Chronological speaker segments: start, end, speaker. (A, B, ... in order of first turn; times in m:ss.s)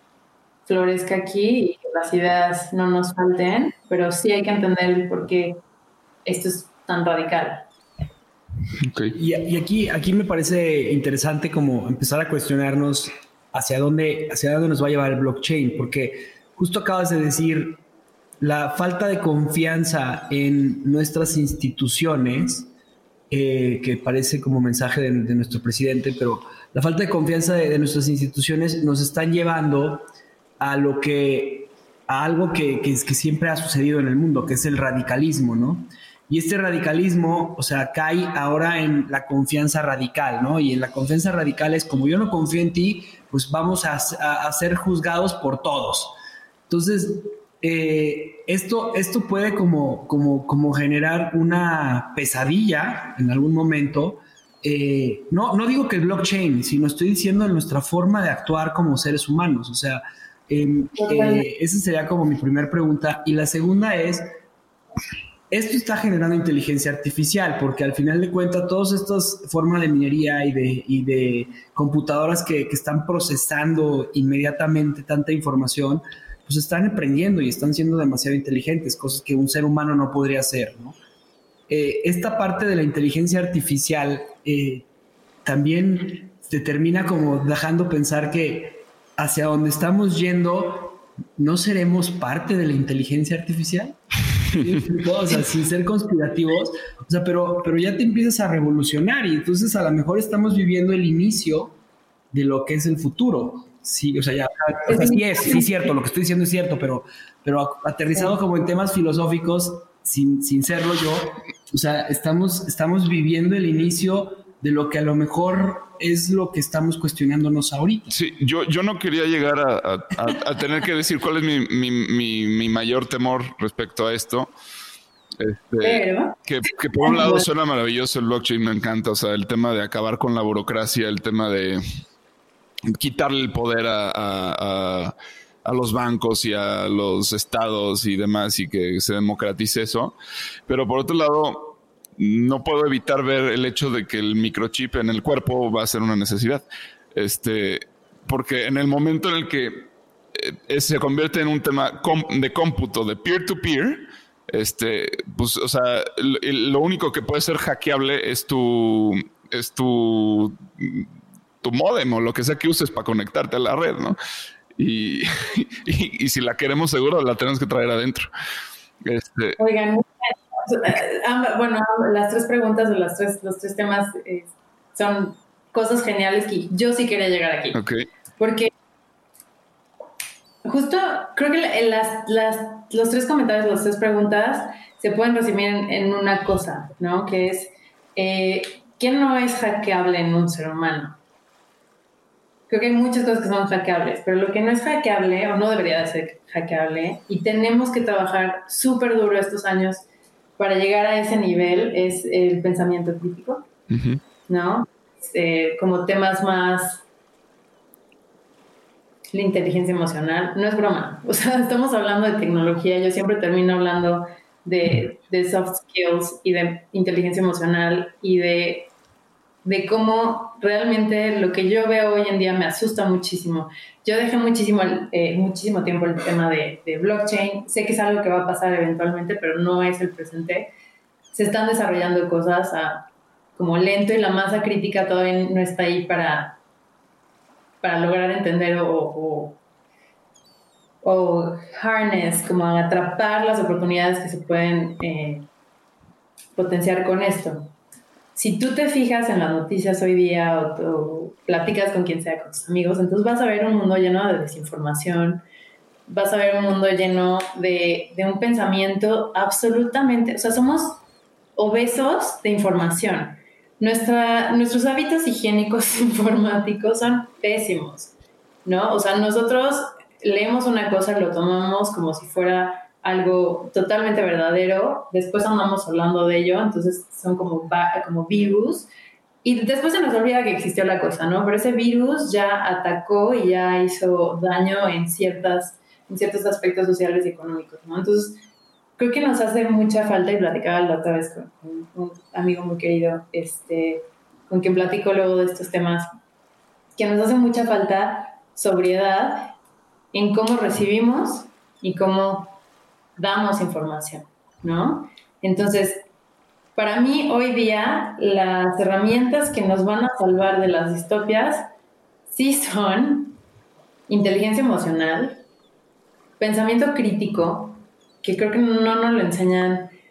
0:00.7-0:05.6 A
0:06.2-0:07.7 A
0:08.8-0:09.2 B
0:09.1-0:17.8 C
0:18.4-0:22.7 C
0:23.3-0:30.1 C
0:30.6-0:46.2 C
0:46.7-1:04.3 C
1:01.0-1:01.5 A
1:05.5-1:21.0 C
1:21.7-1:24.9 C
1:25.4-1:34.0 C
1:34.5-1:41.8 C
1:42.3-1:58.1 C
1:44.9-1:45.7 A
1:58.1-2:04.5 B
2:05.4-2:11.8 B
2:05.8-2:06.4 A
2:07.0-2:07.5 A
2:12.9-2:20.2 B
2:20.7-2:41.1 B
2:41.6-2:44.2 B
2:44.8-2:48.3 B
2:49.0-2:49.6 B
2:49.6-2:57.8 A
2:57.7-2:58.0 B
2:58.4-2:58.7 A
3:00.6-3:11.2 A
3:12.7-3:20.0 A
3:20.6-3:23.7 A
3:23.9-3:24.2 B
3:24.5-3:27.0 A
3:29.3-3:38.9 A
3:39.6-3:50.7 A
3:51.3-3:56.6 A
3:57.8-3:59.6 A
4:01.0-4:05.5 A
4:06.6-4:07.7 A
4:08.4-4:15.4 A
4:16.1-4:21.0 A
4:21.6-4:28.1 A
4:28.6-4:38.9 A
4:39.4-4:48.4 A
4:49.0-4:56.1 A
4:57.0-4:59.6 A
5:00.1-5:02.6 A
5:03.2-5:06.1 A
5:06.8-5:11.7 A
5:12.3-5:13.4 A
5:14.1-5:15.4 A
5:16.4-5:19.9 A